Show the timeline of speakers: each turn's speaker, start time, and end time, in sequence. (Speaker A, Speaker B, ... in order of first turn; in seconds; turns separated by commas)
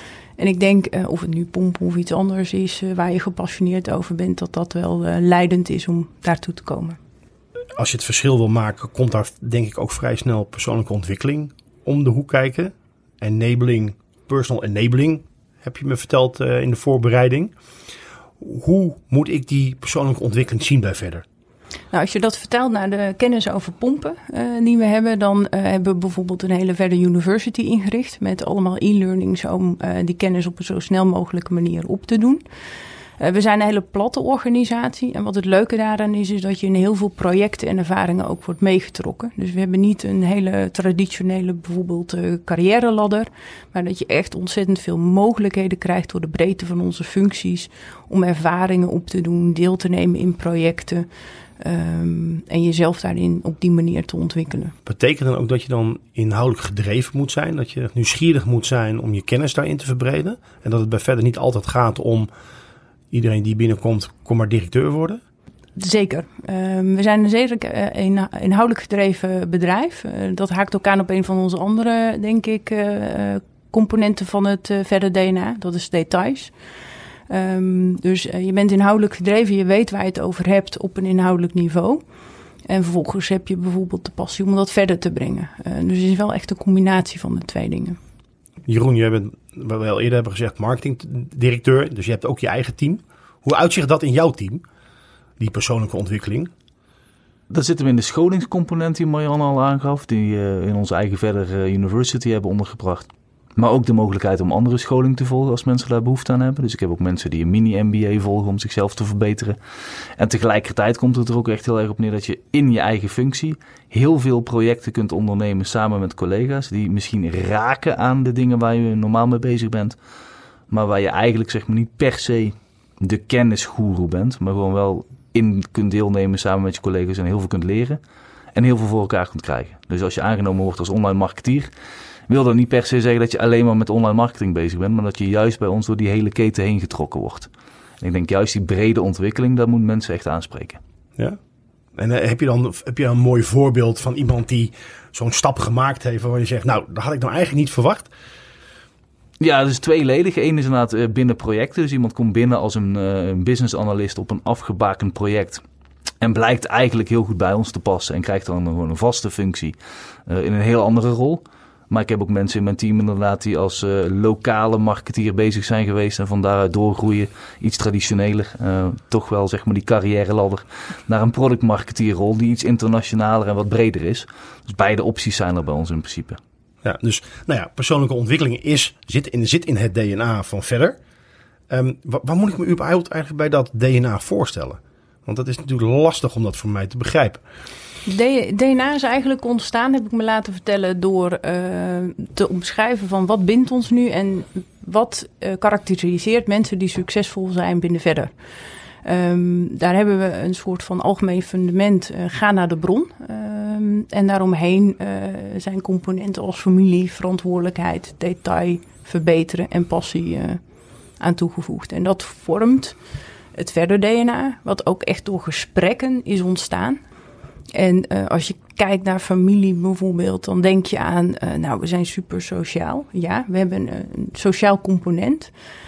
Speaker A: 0.4-7.0, Speaker B: 7.8-17.5, Speaker B: 18.4-21.2, Speaker A: 21.9-32.4, Speaker A: 33.2-51.1, Speaker A: 51.6-54.7, Speaker B: 54.9-62.3, Speaker B: 63.1-65.2, Speaker A: 65.8-76.5, Speaker A: 77.3-82.0, Speaker A: 82.7-88.0, Speaker B: 88.7-94.6, Speaker B: 95.4-96.5, Speaker C: 97.5-109.6, Speaker C: 110.2-120.0, Speaker C: 120.7-128.0, Speaker C: 128.5-131.7, Speaker C: 132.3-137.5, Speaker C: 138.0-140.8, Speaker B: 141.9-148.1, Speaker C: 149.4-155.6, Speaker C: 156.2-159.7, Speaker C: 160.3-176.4, Speaker B: 176.8-181.0, Speaker B: 181.7-187.4, Speaker A: 188.1-198.3, Speaker A: 199.0-210.6, Speaker A: 211.2-212.9, Speaker A: 213.6-217.0, Speaker A: 217.7-225.5